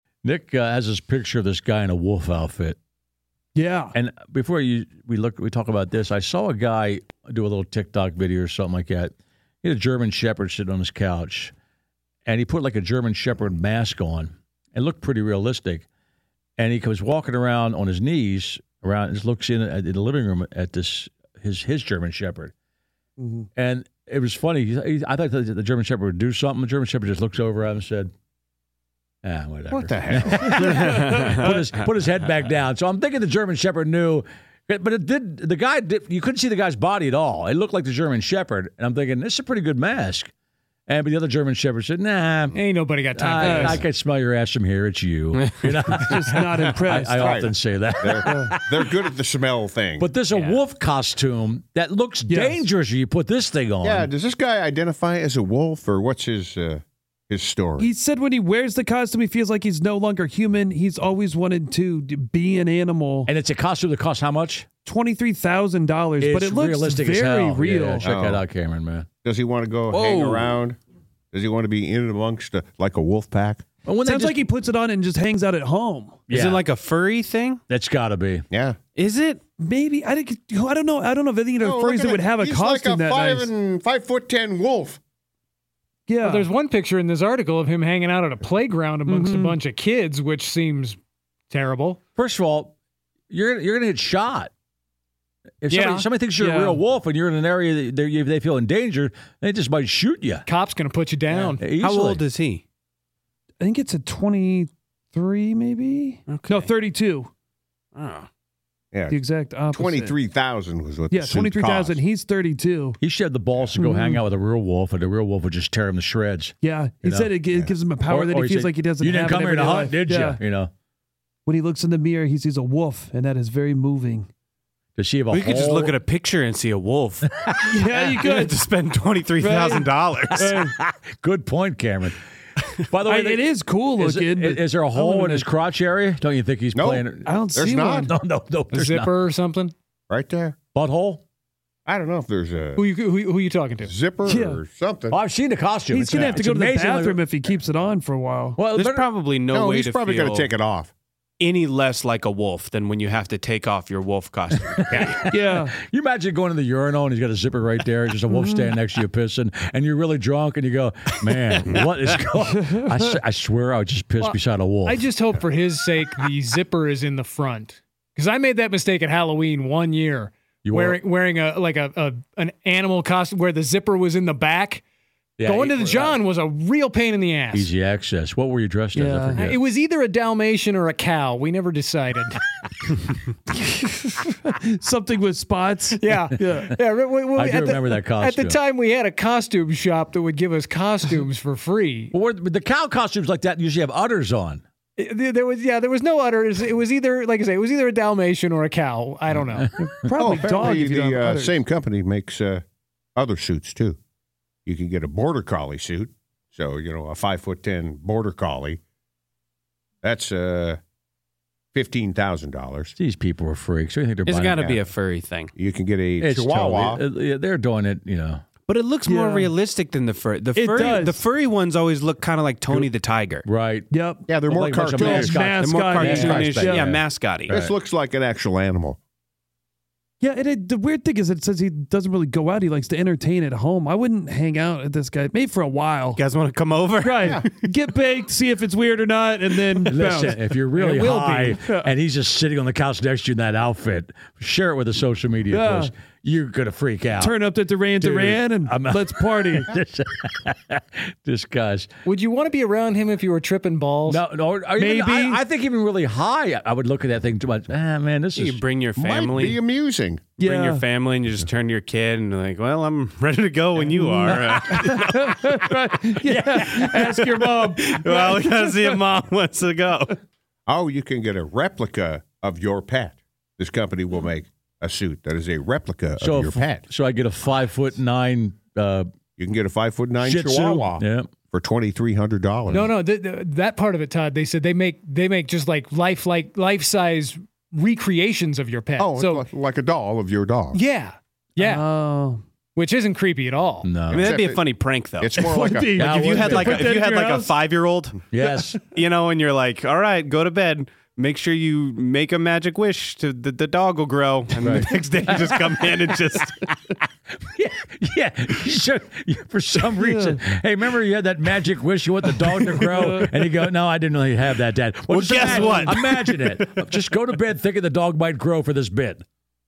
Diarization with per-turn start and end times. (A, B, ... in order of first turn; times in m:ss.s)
0:00.2-0:02.8 A
0:03.6-0:03.9 B
0:04.0-0:09.1 A
0:09.6-0:11.5 A
0:12.3-0:15.8 A
0:16.6-0:22.5 A
0:23.2-0:23.5 B
0:23.6-0:28.1 A
0:29.2-0:40.3 A
0:29.7-0:31.0 C
0:30.6-0:31.5 D
0:40.9-0:42.6 A
0:42.5-0:43.8 E
0:43.1-0:48.6 A
0:43.4-0:43.8 B
0:46.0-0:47.3 B
0:47.1-0:50.1 C
0:48.3-0:48.6 B
0:50.0-0:54.1 A
0:50.3-0:50.6 D
0:52.3-0:52.6 B
0:53.8-0:57.9 C
0:57.8-1:03.3 B
1:03.3-1:04.7 A
1:04.8-1:08.1 B
1:06.2-1:09.1 A
1:08.0-1:08.4 C
1:09.2-1:10.8 C
1:09.9-1:10.6 D
1:11.3-1:13.6 C
1:13.9-1:14.4 A
1:14.0-1:16.2 B
1:16.3-1:16.6 A
1:16.3-1:17.6 D
1:17.7-1:18.5 A
1:18.5-1:18.8 C
1:19.0-1:19.4 D
1:19.6-1:23.5 B
1:21.6-1:25.0 C
1:26.1-1:26.5 B
1:26.2-1:31.0 E
1:29.1-1:29.6 B
1:31.5-1:32.0 E
1:32.2-1:32.7 A
1:33.3-1:34.5 A
1:35.6-1:40.5 A
1:35.7-1:36.1 E
1:36.4-1:36.8 B
1:40.5-1:41.6 E
1:41.3-1:42.6 D
1:41.6-1:42.2 A
1:43.6-1:47.3 B
1:46.3-1:46.7 D
1:48.0-1:48.3 D
1:48.9-1:49.2 C
1:49.1-1:50.2 B
1:49.7-1:52.0 C
1:51.1-1:53.0 B
1:53.0-1:57.4 A
1:53.8-1:54.2 B
1:56.6-2:00.4 B
1:58.1-2:00.7 A
2:01.5-2:04.3 B
2:05.0-2:06.0 A
2:05.3-2:10.5 D
2:07.7-2:08.6 B
2:09.4-2:10.7 B
2:10.4-2:12.2 A
2:12.9-2:13.4 A
2:13.1-2:15.5 B
2:14.0-2:17.4 A
2:16.7-2:18.1 C
2:17.2-2:18.1 B
2:18.1-2:19.1 A
2:18.7-2:19.7 E
2:20.1-2:20.6 C
2:20.7-2:21.2 A
2:21.9-2:22.8 C
2:22.8-2:23.9 E
2:23.8-2:25.2 C
2:24.2-2:24.6 B
2:25.1-2:27.2 A
2:25.9-2:28.6 B
2:28.6-2:29.1 A
2:28.7-2:30.5 D
2:29.5-2:30.9 C
2:31.4-2:35.2 D
2:34.8-2:45.0 A
2:35.3-2:35.7 B
2:38.3-2:38.7 B
2:44.2-2:54.8 E
2:50.6-2:51.0 A
2:55.4-2:56.2 A
2:55.4-2:57.7 E
2:57.5-2:59.6 A
2:59.0-2:59.5 B
2:59.4-3:02.4 E
3:04.5-3:06.7 B
3:06.0-3:12.1 E
3:07.4-3:08.6 A
3:12.1-3:14.6 A
3:15.0-3:19.7 E
3:19.3-3:20.1 A
3:19.8-3:21.6 B
3:20.2-3:22.6 C
3:23.2-3:24.0 C
3:24.7-3:28.8 C
3:30.0-3:30.8 C
3:31.8-3:32.9 C
3:33.0-3:34.8 A
3:34.3-3:35.5 D
3:35.6-3:37.0 C
3:36.2-3:38.4 A
3:38.7-3:43.4 D
3:39.0-3:39.5 B
3:40.6-3:41.2 B
3:43.4-3:43.9 A
3:43.9-3:44.4 B
3:44.3-3:45.4 C
3:44.5-3:47.8 A
3:44.9-3:47.0 B
3:45.0-3:47.6 D
3:47.5-3:49.0 C
3:50.2-3:56.2 B
3:56.2-3:57.5 D
3:57.0-4:00.8 B
3:59.9-4:07.4 A
4:00.8-4:01.6 E
4:05.5-4:05.9 B
4:07.2-4:09.7 B
4:08.0-4:11.9 A
4:12.0-4:14.2 E
4:14.1-4:18.6 A
4:14.8-4:15.4 B
4:18.4-4:19.6 D
4:19.0-4:20.4 C
4:20.4-4:20.8 B
4:20.4-4:25.6 D
4:23.9-4:29.0 B
4:24.3-4:24.6 A
4:26.2-4:26.8 A
4:26.5-4:30.2 D
4:30.7-4:36.8 C
4:36.2-4:39.1 A
4:39.4-4:42.9 C
4:40.2-4:41.3 A
4:42.7-4:49.5 E
4:49.0-4:50.8 C
4:50.7-4:51.9 E
4:51.6-4:52.4 B
4:52.8-4:53.9 E
4:53.8-4:54.3 A
4:54.1-4:55.5 D
4:54.2-4:56.0 C
4:55.4-4:57.6 B
4:56.0-4:56.9 A
4:56.0-4:58.2 D
4:58.3-4:58.8 A
4:58.9-5:06.7 D
5:04.6-5:06.1 A
5:07.5-5:19.2 A
5:10.0-5:10.4 B
5:12.9-5:13.3 B
5:15.1-5:16.9 D
5:15.3-5:15.9 B